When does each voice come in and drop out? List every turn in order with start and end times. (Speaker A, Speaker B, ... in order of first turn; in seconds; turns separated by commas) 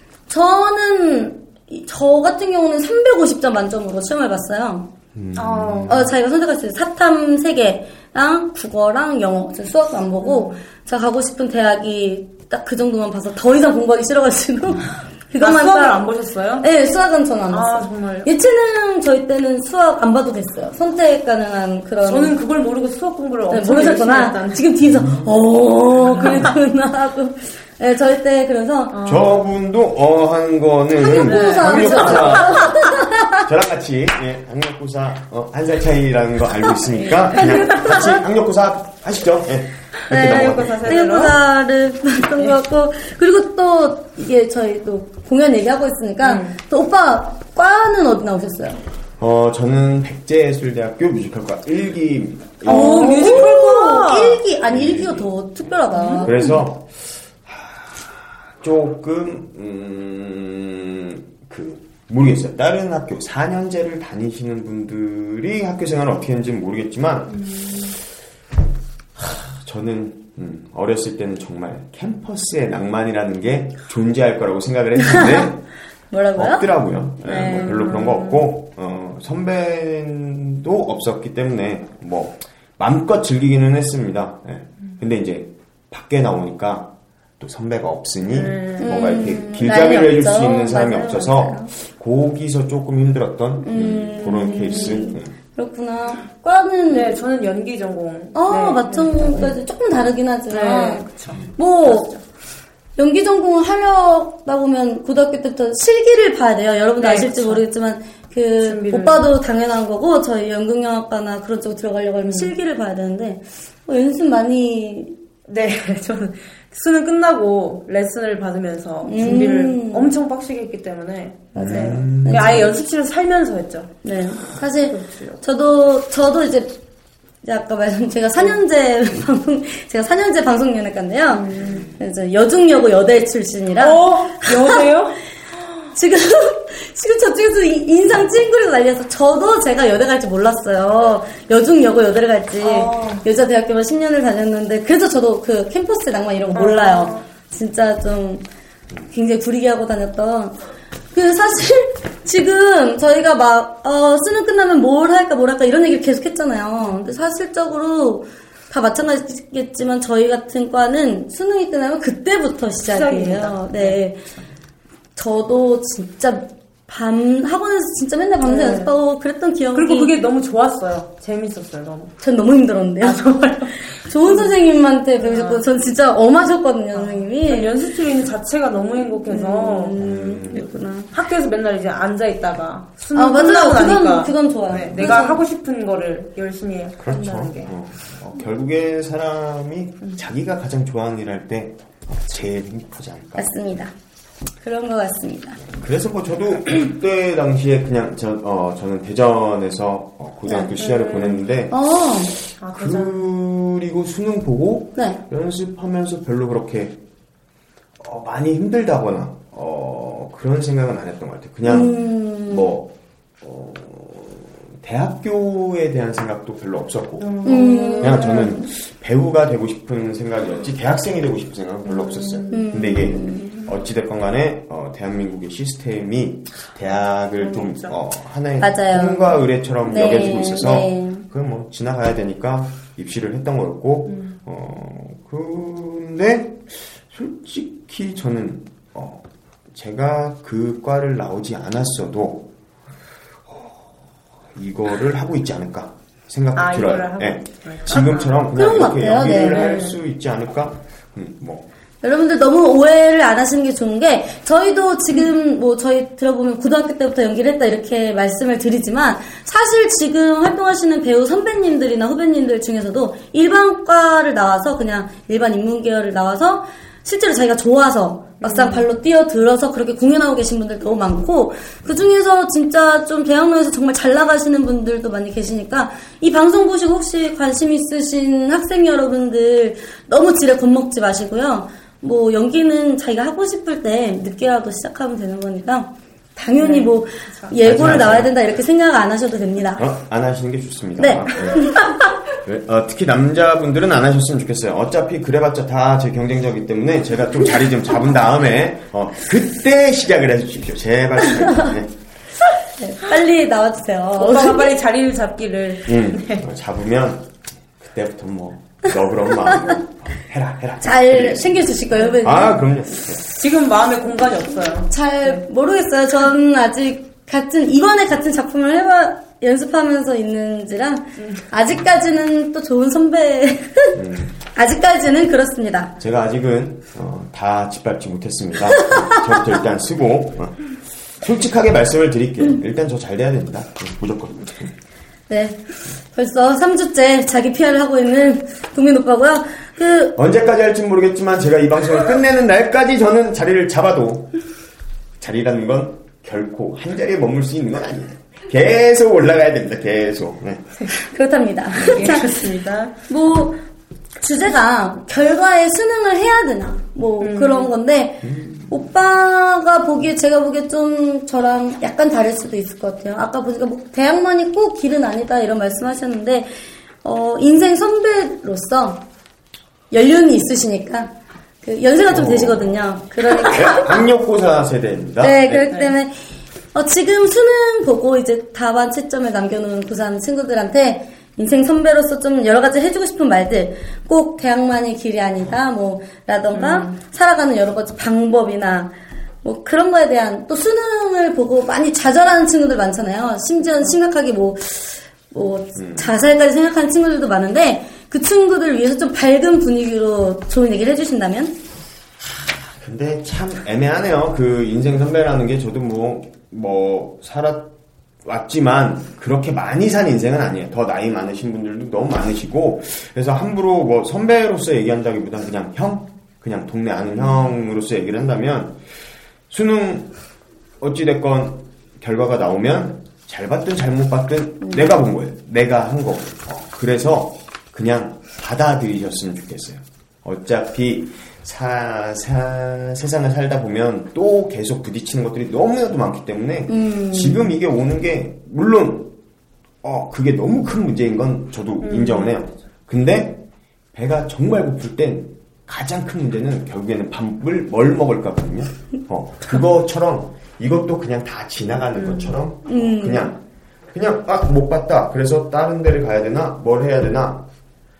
Speaker A: 0.3-4.9, Speaker B: 5.1-6.1, Speaker C: 5.3-6.0, Speaker A: 5.9-16.1, Speaker C: 10.2-10.6, Speaker C: 15.4-16.7, Speaker A: 16.6-22.3, Speaker C: 17.5-18.3, Speaker C: 22.0-24.6, Speaker A: 23.5-29.0, Speaker B: 24.9-25.3, Speaker C: 26.1-26.5, Speaker C: 28.9-29.3, Speaker B: 29.0-32.8, Speaker A: 30.9-33.5, Speaker C: 31.2-32.8, Speaker B: 33.4-41.0, Speaker C: 37.0-38.2, Speaker C: 40.1-41.4, Speaker A: 40.1-48.8, Speaker C: 46.2-46.5, Speaker B: 49.2-53.5, Speaker C: 52.6-54.4, Speaker A: 52.6-56.4, Speaker B: 54.7-55.3, Speaker C: 55.9-56.5, Speaker B: 56.2-67.8, Speaker C: 67.4-67.7, Speaker B: 69.2-75.6, Speaker A: 75.0-75.5, Speaker A: 76.1-76.7, Speaker B: 76.3-95.3, Speaker A: 77.2-78.0, Speaker C: 77.3-78.5, Speaker C: 88.3-89.3, Speaker A: 88.8-91.7, Speaker A: 93.6-97.1, Speaker C: 94.4-95.0, Speaker C: 96.9-99.5, Speaker A: 98.3-102.1, Speaker C: 100.5-102.2, Speaker A: 103.0-115.2, Speaker C: 107.0-107.6, Speaker C: 108.6-109.3, Speaker C: 112.2-112.5, Speaker C: 115.5-123.9, Speaker A: 119.0-120.1, Speaker A: 121.5-122.7, Speaker B: 121.5-122.7, Speaker A: 124.0-126.8, Speaker C: 124.8-125.4, Speaker A: 127.4-134.8, Speaker C: 131.3-131.8, Speaker C: 133.8-135.2, Speaker A: 135.9-148.4, Speaker C: 142.6-143.2, Speaker C: 146.5-147.2, Speaker A: 149.1-150.6, Speaker A: 151.1-164.2, Speaker C: 162.8-164.0, Speaker A: 165.2-170.1, Speaker C: 168.4-168.9, Speaker C: 169.7-172.1, Speaker A: 172.2-173.2, Speaker C: 173.0-174.6, Speaker A: 173.8-177.7, Speaker C: 175.2-175.6, Speaker C: 176.9-179.9, Speaker A: 179.3-181.1, Speaker B: 179.9-180.7, Speaker C: 181.1-187.7, Speaker A: 183.1-185.4, Speaker B: 187.0-193.5, Speaker A: 193.4-193.9, Speaker A: 194.6-195.6, Speaker B: 195.7-201.7, Speaker A: 200.5-200.7, Speaker C: 200.8-201.4, Speaker A: 201.7-202.3, Speaker C: 202.6-203.2, Speaker B: 202.7-207.0, Speaker B: 208.0-242.5, Speaker A: 211.7-212.7, Speaker C: 217.2-218.7, Speaker A: 217.4-218.5, Speaker C: 221.9-222.7, Speaker A: 222.5-223.6, Speaker C: 227.4-227.9, Speaker A: 228.6-231.2, Speaker C: 234.1-234.3, Speaker B: 243.5-243.9, Speaker B: 244.5-251.7, Speaker C: 246.5-248.4, Speaker A: 248.5-249.8, Speaker C: 249.3-249.9, Speaker A: 252.0-289.8, Speaker C: 268.4-268.9, Speaker C: 286.6-287.5, Speaker B: 287.6-288.3, Speaker B: 289.8-291.8, Speaker A: 291.0-291.9, Speaker B: 292.4-301.9, Speaker A: 302.8-304.7, Speaker C: 304.2-306.4, Speaker B: 305.9-307.2, Speaker B: 307.8-313.2, Speaker A: 310.8-312.6, Speaker C: 313.3-315.4, Speaker A: 314.9-324.0, Speaker B: 323.9-324.3, Speaker A: 324.5-325.9, Speaker B: 326.0-334.7, Speaker A: 328.8-329.3, Speaker A: 335.3-335.6, Speaker A: 336.1-340.1, Speaker B: 340.1-344.3, Speaker B: 345.2-350.7, Speaker A: 350.9-352.4, Speaker C: 351.8-352.9, Speaker A: 353.1-353.6, Speaker A: 354.2-366.5, Speaker C: 357.2-357.7, Speaker B: 358.2-358.8, Speaker A: 367.0-369.0, Speaker A: 369.9-371.1, Speaker A: 371.6-373.9, Speaker B: 372.1-372.8, Speaker B: 373.4-375.7, Speaker A: 375.2-376.1, Speaker A: 376.7-388.9, Speaker C: 386.5-386.9, Speaker A: 389.4-401.6, Speaker B: 395.7-396.1, Speaker B: 402.6-407.7, Speaker B: 408.2-418.8, Speaker B: 419.5-420.1, Speaker B: 420.8-439.1, Speaker A: 424.6-424.9, Speaker A: 436.7-437.5, Speaker B: 439.8-443.4, Speaker C: 441.8-442.5, Speaker B: 443.9-453.4, Speaker C: 451.9-452.4, Speaker A: 452.6-453.3, Speaker B: 453.9-457.4